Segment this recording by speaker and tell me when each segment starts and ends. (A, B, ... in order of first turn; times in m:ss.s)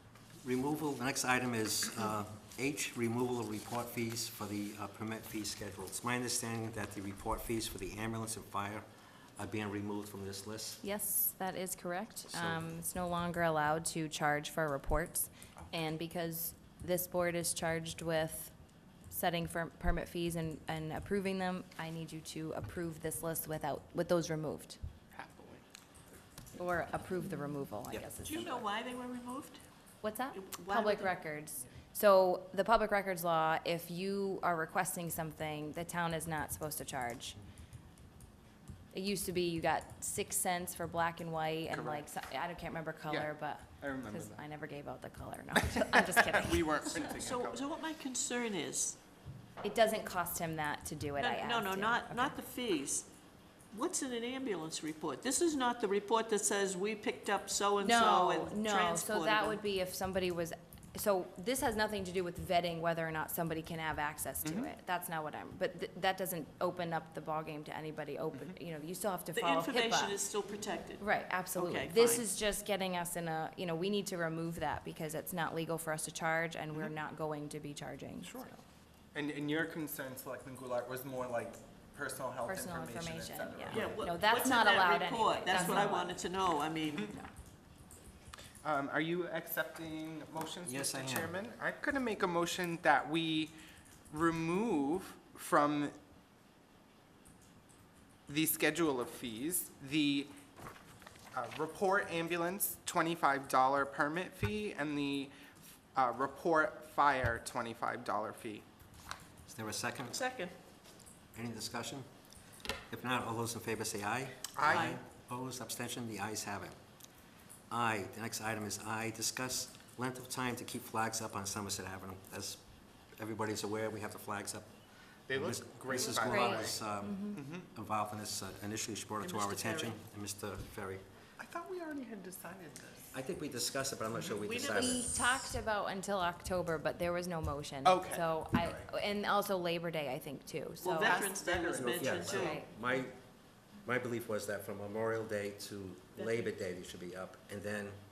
0:00.4-0:08.8 A
0:09.4-0:10.8 A
0:10.8-0:18.5 B
0:12.3-0:12.6 A
0:19.1-0:24.8 B
0:25.1-0:25.6 C
0:26.6-0:28.7 B
0:28.2-0:29.6 D
0:30.0-0:37.4 B
0:30.3-0:31.1 D
0:38.9-0:47.0 B
0:41.7-0:42.1 C
0:43.1-0:44.4 C
0:46.1-0:47.7 C
0:46.9-0:49.0 D
0:49.6-0:52.4 B
0:51.2-0:53.1 D
0:53.7-0:59.6 D
0:57.8-1:10.2 B
1:04.4-1:04.7 C
1:09.3-1:11.0 D
1:11.0-1:18.6 B
1:11.5-1:12.2 D
1:18.2-1:18.5 C
1:19.1-1:24.1 C
1:22.4-1:26.1 B
1:23.7-1:27.1 D
1:25.5-1:25.8 C
1:27.0-1:27.3 B
1:28.6-1:33.5 C
1:30.6-1:31.3 A
1:34.1-1:35.9 C
1:38.3-1:40.3 C
1:41.3-1:45.4 C
1:45.9-1:48.6 C
1:49.5-1:50.2 A
1:50.1-1:50.5 D
1:51.3-1:52.1 A
1:52.9-1:56.8 A
1:54.5-1:55.0 C
1:54.6-1:55.0 D
1:57.7-2:02.6 A
2:03.2-2:04.7 A
2:05.3-2:06.8 C
2:05.3-2:11.0 A
2:06.2-2:07.4 B
2:07.3-2:07.7 C
2:09.2-2:10.0 D
2:11.4-2:13.1 C
2:13.1-2:15.5 A
2:14.4-2:15.0 D
2:14.7-2:21.2 B
2:17.8-2:18.9 C
2:20.8-2:22.6 D
2:21.0-2:22.6 C
2:21.7-2:23.2 A
2:22.3-2:22.7 B
2:23.8-2:28.0 A
2:26.2-2:26.5 D